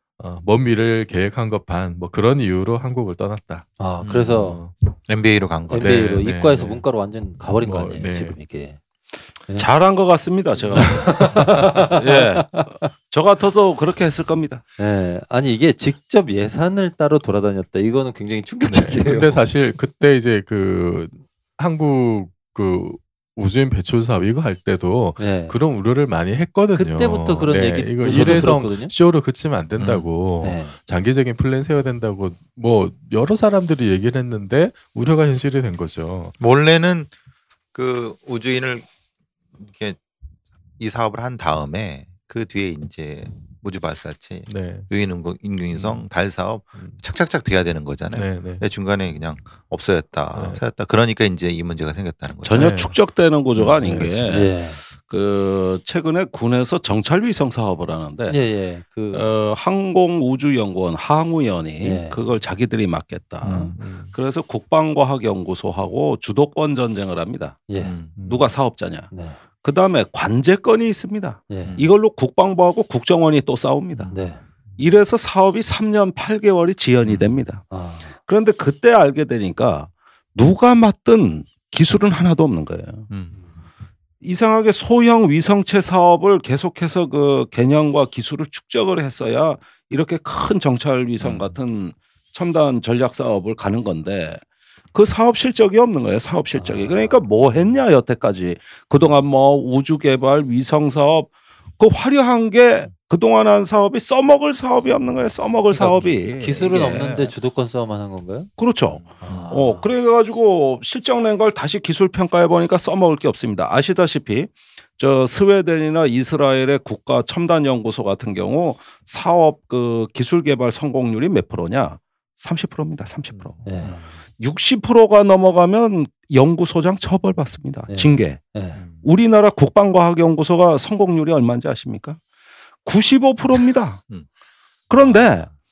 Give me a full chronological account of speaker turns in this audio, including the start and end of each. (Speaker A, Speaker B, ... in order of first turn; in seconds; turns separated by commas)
Speaker A: 0.2-4.9, Speaker B: 3.8-4.6, Speaker C: 5.1-6.1, Speaker B: 5.7-8.8, Speaker A: 5.8-6.9, Speaker A: 7.6-8.4, Speaker D: 9.6-14.6, Speaker B: 10.7-12.9, Speaker A: 10.8-11.9, Speaker B: 14.8-19.4, Speaker A: 18.6-36.4, Speaker B: 25.2-25.6, Speaker B: 26.7-28.9, Speaker C: 28.1-28.4, Speaker C: 29.8-30.1, Speaker B: 30.4-30.8, Speaker C: 36.4-37.1, Speaker C: 37.7-38.9, Speaker C: 39.6-40.0, Speaker C: 40.8-52.8, Speaker A: 44.5-44.9, Speaker A: 45.7-46.0, Speaker A: 48.1-48.6, Speaker A: 50.4-50.6, Speaker D: 52.5-58.4, Speaker A: 52.5-53.0, Speaker A: 53.6-54.2, Speaker B: 54.2-54.8, Speaker B: 58.3-59.3, Speaker D: 59.1-67.7, Speaker B: 61.8-62.2, Speaker A: 63.4-64.1, Speaker B: 67.7-68.0, Speaker A: 67.8-68.5, Speaker D: 68.2-74.2, Speaker B: 69.1-69.4, Speaker B: 71.5-71.8, Speaker B: 74.1-74.4, Speaker D: 74.8-83.1, Speaker B: 77.7-78.1, Speaker C: 83.1-83.3, Speaker D: 84.2-94.4, Speaker D: 94.9-107.3, Speaker B: 96.5-97.2, Speaker B: 105.7-108.5, Speaker D: 108.6-123.7, Speaker B: 109.2-109.9, Speaker A: 123.4-123.8, Speaker B: 123.6-124.1, Speaker D: 124.4-132.2, Speaker B: 127.9-128.8, Speaker A: 128.8-129.0, Speaker D: 132.8-134.0, Speaker D: 134.9-135.5